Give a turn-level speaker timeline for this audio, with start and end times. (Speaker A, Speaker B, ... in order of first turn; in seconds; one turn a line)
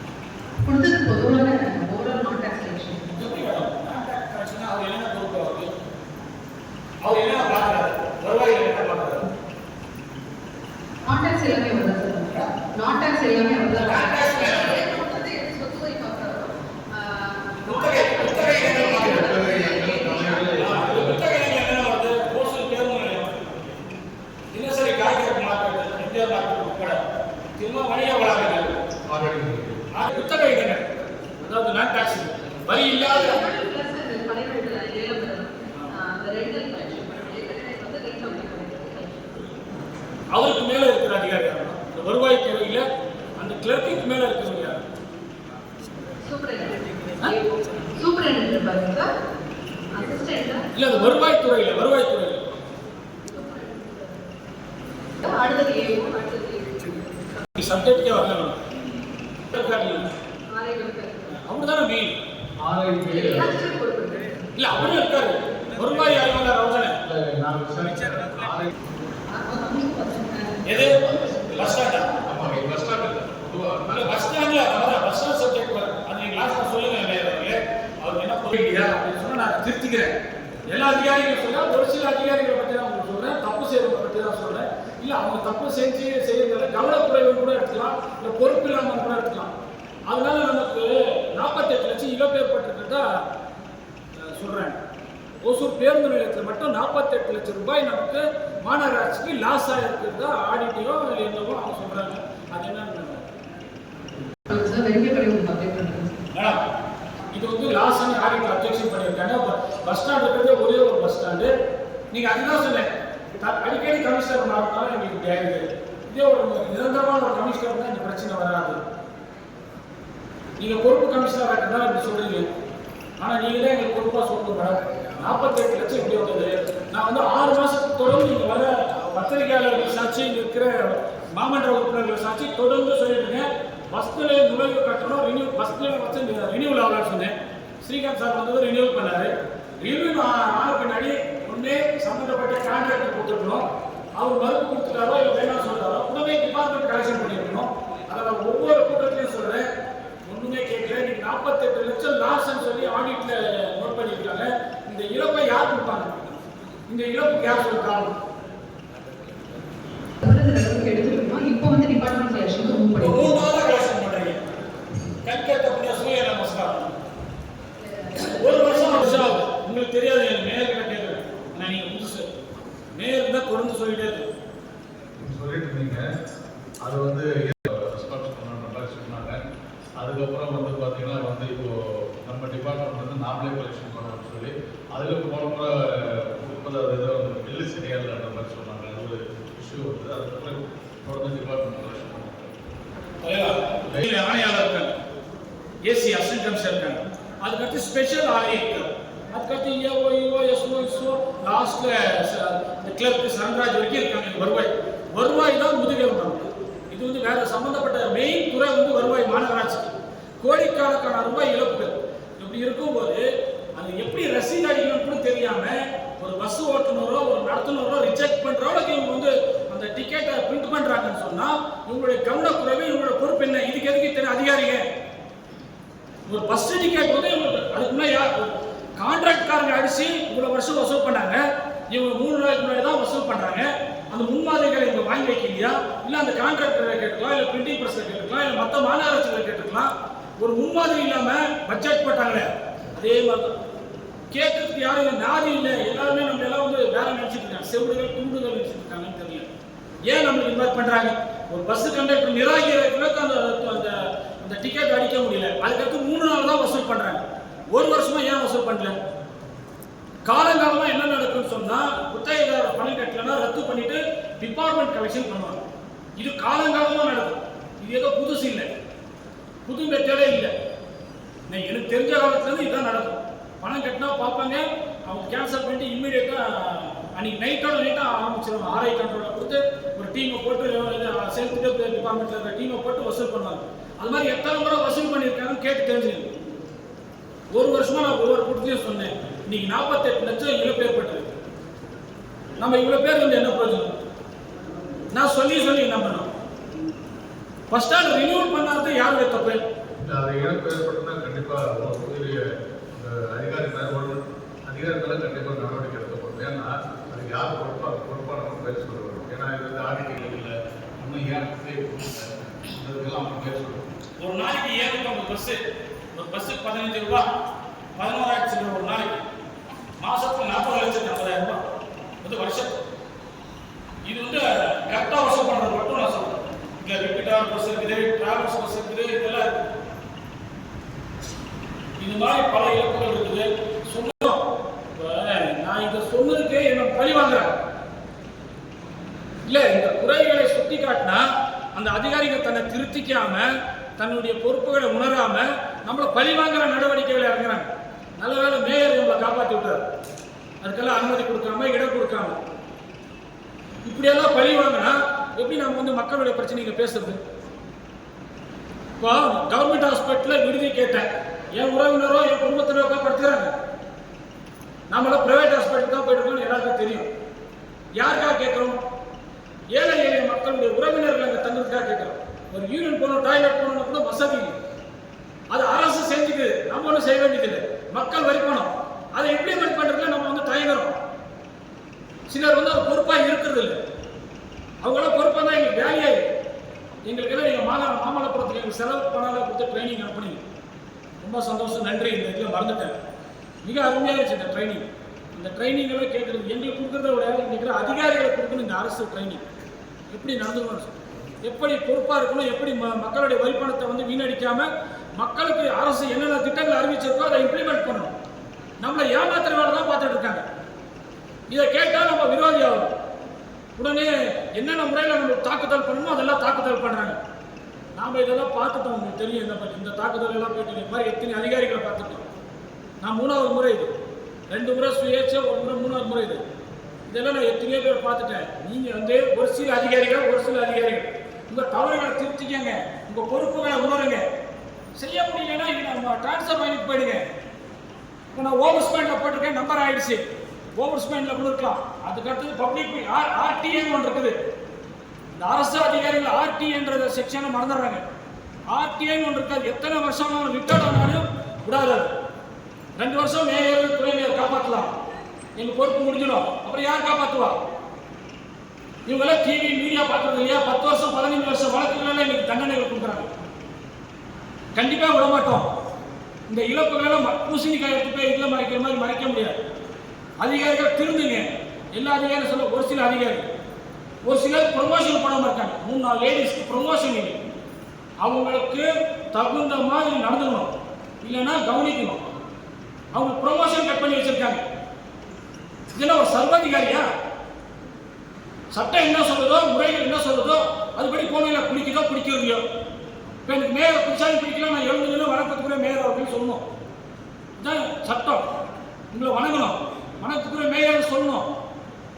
Speaker A: 0.6-3.2
Speaker B: 3.2-5.7
Speaker B: 7.0-9.3
Speaker A: 11.1-20.6
Speaker B: 13.8-14.8
Speaker B: 17.7-19.3
Speaker C: 18.7-21.3
Speaker B: 20.5-23.7
Speaker B: 24.5-27.0
Speaker B: 27.6-28.8
Speaker C: 29.1-29.9
Speaker B: 29.9-33.5
Speaker A: 32.9-39.5
Speaker B: 40.3-42.9
Speaker B: 43.4-44.8
Speaker A: 46.2-49.1
Speaker A: 49.9-50.7
Speaker B: 50.8-52.5
Speaker A: 53.3-54.2
Speaker A: 55.2-57.4
Speaker B: 57.6-58.6
Speaker B: 59.5-60.1
Speaker A: 60.5-61.4
Speaker B: 61.3-62.1
Speaker C: 62.6-63.5
Speaker A: 63.1-64.5
Speaker B: 64.6-67.0
Speaker C: 64.7-65.0
Speaker C: 67.0-68.7
Speaker A: 69.3-71.0
Speaker B: 70.7-72.2
Speaker C: 70.8-74.3
Speaker B: 73.9-80.1
Speaker B: 80.7-89.5
Speaker B: 90.1-93.2
Speaker B: 94.2-94.8
Speaker B: 95.4-103.3
Speaker A: 104.5-106.2
Speaker B: 106.3-106.7
Speaker B: 107.3-111.5
Speaker B: 112.1-118.8
Speaker B: 120.6-122.5
Speaker B: 123.2-143.7
Speaker B: 144.2-149.7
Speaker B: 150.3-156.2
Speaker B: 156.9-158.1
Speaker A: 160.2-163.4
Speaker B: 163.0-164.5
Speaker B: 165.1-167.0
Speaker A: 167.8-169.3
Speaker B: 168.1-172.3
Speaker B: 173.0-174.3
Speaker C: 175.2-176.1
Speaker C: 176.8-179.4
Speaker C: 180.0-192.5
Speaker B: 193.2-194.9
Speaker B: 195.8-224.8
Speaker B: 226.3-243.6
Speaker B: 244.3-249.5
Speaker B: 250.1-259.0
Speaker B: 260.3-265.6
Speaker B: 266.2-268.7
Speaker B: 269.7-270.5
Speaker B: 271.5-286.3
Speaker B: 287.5-291.4
Speaker B: 292.6-293.9
Speaker B: 295.1-296.3
Speaker B: 297.7-299.6
Speaker C: 300.0-302.4
Speaker C: 302.9-313.9
Speaker B: 314.2-315.6
Speaker B: 316.1-317.3
Speaker B: 318.0-319.2
Speaker B: 320.0-321.6
Speaker B: 322.2-322.8
Speaker B: 324.1-329.5
Speaker B: 332.0-334.4
Speaker B: 335.0-337.5
Speaker B: 339.5-349.9
Speaker B: 350.6-352.4
Speaker B: 353.9-357.2
Speaker B: 359.0-363.6
Speaker B: 364.9-367.1
Speaker B: 368.0-368.8
Speaker B: 369.7-374.6
Speaker B: 375.5-381.0
Speaker B: 382.3-383.8
Speaker B: 384.8-386.3
Speaker B: 387.1-390.4
Speaker B: 391.2-393.0
Speaker B: 393.6-394.8
Speaker B: 395.4-399.4
Speaker B: 400.1-400.9
Speaker B: 401.4-408.1
Speaker B: 408.8-410.4
Speaker B: 411.5-412.9
Speaker B: 413.8-417.2
Speaker B: 417.9-422.2
Speaker B: 423.0-423.9
Speaker B: 424.5-426.4
Speaker B: 427.1-434.2
Speaker B: 435.0-437.3
Speaker B: 438.3-444.4
Speaker B: 445.4-448.0
Speaker B: 448.7-452.1
Speaker B: 453.0-454.9
Speaker B: 455.6-457.6
Speaker B: 459.1-463.3
Speaker B: 464.8-465.7
Speaker B: 466.5-469.6
Speaker B: 470.4-473.5
Speaker B: 474.3-477.4
Speaker B: 478.2-482.3
Speaker B: 483.1-484.6
Speaker B: 485.9-487.1
Speaker B: 488.7-492.6
Speaker B: 493.4-496.6
Speaker B: 497.6-498.4
Speaker B: 499.1-501.5